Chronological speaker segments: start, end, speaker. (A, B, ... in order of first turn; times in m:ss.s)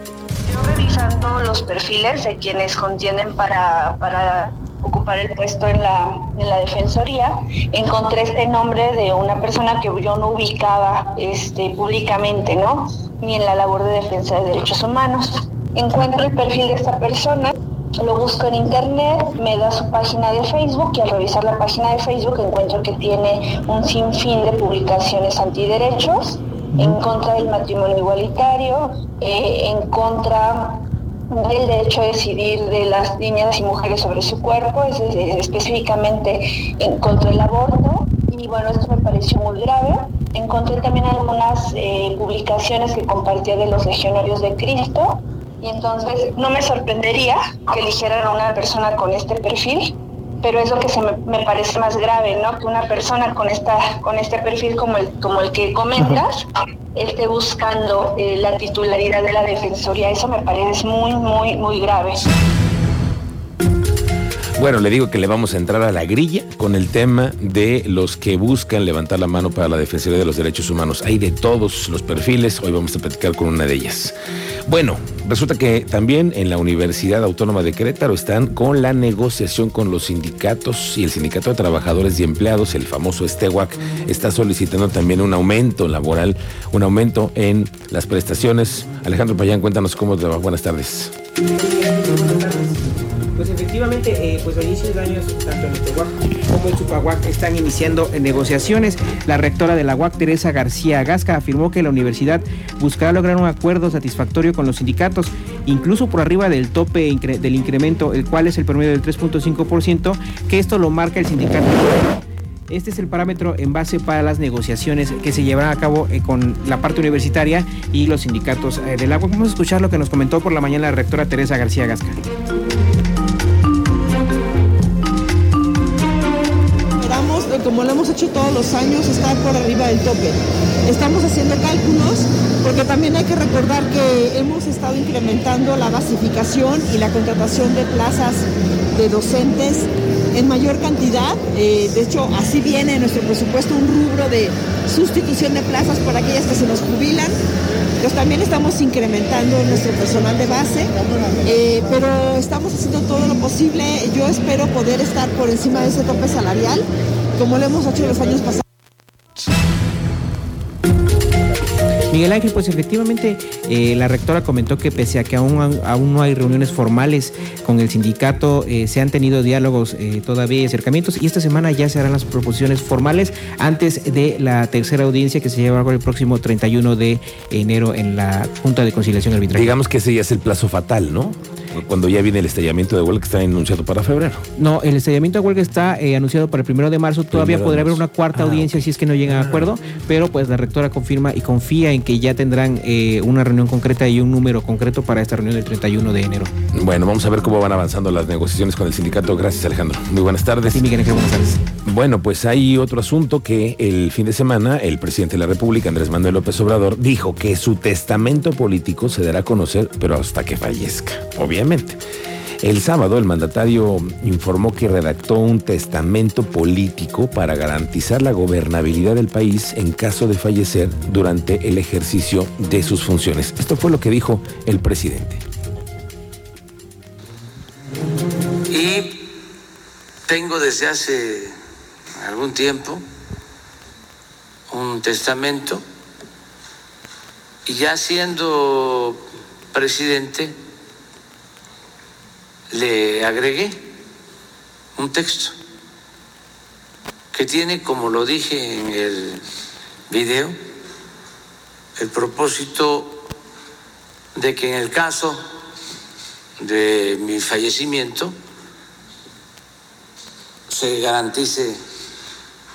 0:00.5-0:56.3 A
0:56.9-1:02.2 A
1:04.6-1:14.1 B
1:14.7-1:31.1 B
1:31.5-1:32.8 C
1:33.3-1:52.2 C
1:52.7-2:02.2 C
2:07.0-2:27.4 D
2:28.0-2:38.6 D
2:42.1-2:59.7 C
2:59.5-3:04.4 B
3:04.6-3:16.5 C
3:07.3-3:08.9 B
3:16.7-3:20.9 B
3:20.7-3:21.6 C
3:21.8-3:32.0 B
3:32.6-3:45.4 B
3:48.7-3:49.2 E
3:50.3-3:51.5 E
3:52.2-3:53.0 E
3:54.7-3:55.8 E
3:57.6-3:59.2 E
3:59.7-4:00.6 E
4:02.7-4:03.8 E
4:05.0-4:05.6 E
4:07.3-4:09.4 E
4:10.1-4:10.6 E
4:12.0-4:13.2 E
4:14.4-4:15.4 E
4:16.6-4:18.3 E
4:20.7-4:21.8 E